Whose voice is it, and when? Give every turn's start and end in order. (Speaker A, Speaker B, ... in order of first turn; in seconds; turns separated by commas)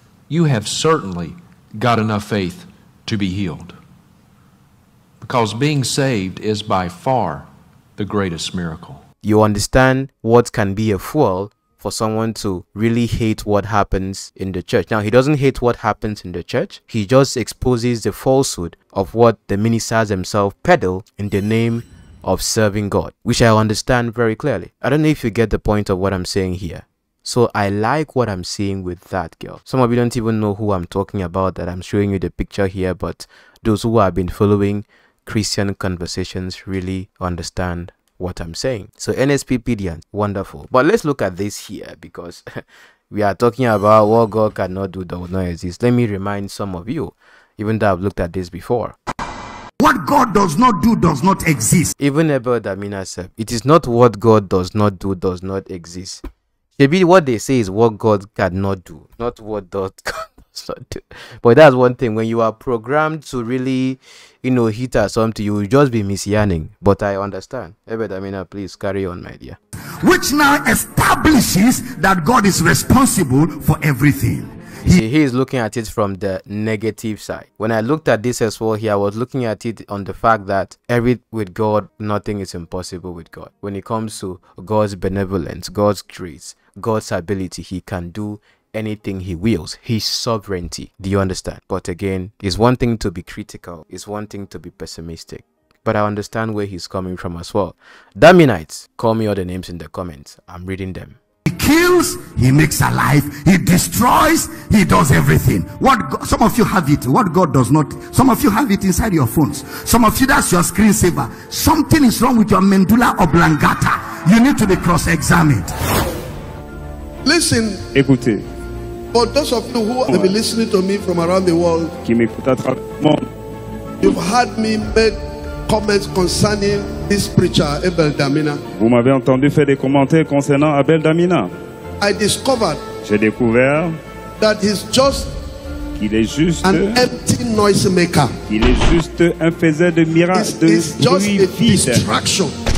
Speaker A: 0.3-3.8, Speaker A: 5.2-9.0, Speaker B: 9.2-42.5, Speaker B: 43.1-49.0, Speaker C: 49.8-51.9, Speaker B: 52.0-56.2, Speaker B: 56.8-69.6, Speaker C: 70.0-75.0, Speaker B: 74.8-101.2, Speaker C: 101.5-115.7, Speaker D: 117.2-117.9, Speaker E: 118.0-118.4, Speaker D: 119.1-121.9, Speaker E: 120.1-120.3, Speaker E: 122.0-123.2, Speaker D: 124.0-128.6, Speaker E: 128.8-131.5, Speaker D: 132.0-132.8, Speaker E: 133.0-134.0, Speaker D: 134.4-135.3, Speaker E: 136.0-137.0, Speaker D: 136.7-138.3, Speaker E: 138.5-142.0, Speaker D: 140.3-142.5